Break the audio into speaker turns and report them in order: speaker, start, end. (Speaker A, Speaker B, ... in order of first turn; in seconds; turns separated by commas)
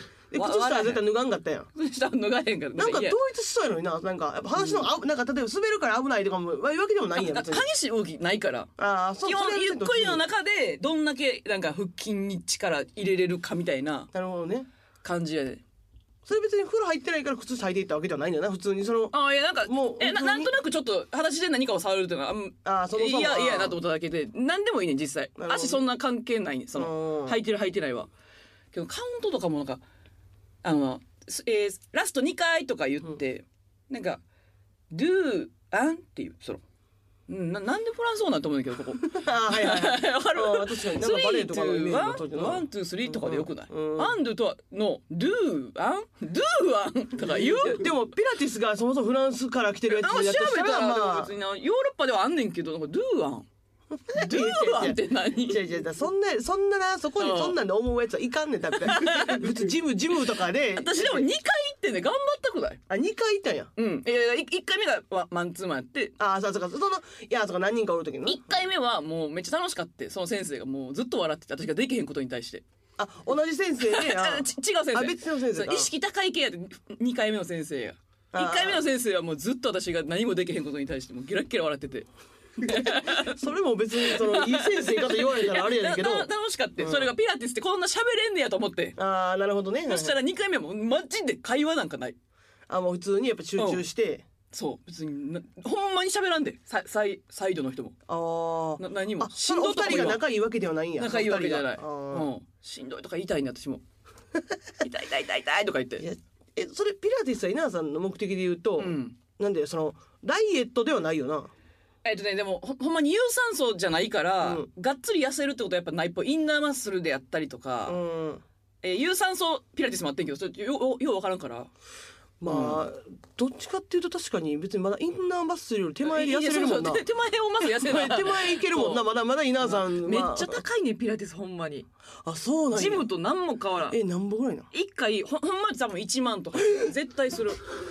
Speaker A: 0.3-1.7, Speaker B: 0.3-1.0, Speaker B: 1.7-3.2, Speaker A: 2.8-7.7, Speaker B: 4.6-4.8, Speaker B: 7.2-8.7, Speaker A: 8.8-10.2, Speaker B: 9.2-14.1, Speaker A: 14.1-14.7, Speaker B: 15.0-15.6, Speaker A: 16.2-19.1, Speaker B: 19.1-28.1, Speaker A: 19.6-20.5, Speaker A: 22.6-23.8, Speaker A: 25.4-25.8, Speaker A: 26.7-27.4, Speaker B: 28.7-29.8, Speaker B: 30.6-34.2, Speaker B: 34.9-36.6, Speaker B: 37.3-47.9, Speaker A: 39.0-44.1, Speaker A: 47.3-51.3, Speaker B: 49.9-53.5, Speaker A: 54.0-61.2, Speaker B: 54.1-55.6, Speaker B: 57.2-57.5, Speaker B: 58.8-59.5, Speaker B: 60.7-62.8, Speaker A: 62.9-63.7, Speaker B: 63.8-66.1, Speaker A: 66.2-68.5, Speaker B: 68.2-72.6, Speaker A: 73.0-75.9, Speaker B: 73.8-83.4, Speaker A: 78.3-78.8, Speaker A: 82.6-87.1, Speaker B: 84.0-89.0, Speaker A: 89.0-90.2, Speaker B: 89.9-92.2, Speaker A: 92.7-94.2, Speaker B: 93.6-93.8, Speaker B: 94.5-98.0, Speaker A: 98.1-102.3, Speaker B: 98.8-100.2, Speaker B: 101.0-103.8, Speaker B: 104.8-106.0, Speaker A: 106.0-111.5, Speaker B: 108.8-109.2, Speaker B: 112.0-118.0, Speaker A: 114.4-114.7, Speaker A: 117.8-118.4, Speaker B: 118.8-121.7, Speaker A: 122.4-127.0, Speaker B: 122.5-122.8, Speaker B: 126.0-129.1, Speaker A: 127.6-130.6, Speaker B: 129.6-131.9, Speaker A: 132.2-133.1, Speaker B: 132.7-134.0, Speaker A: 133.9-134.7, Speaker B: 134.7-137.7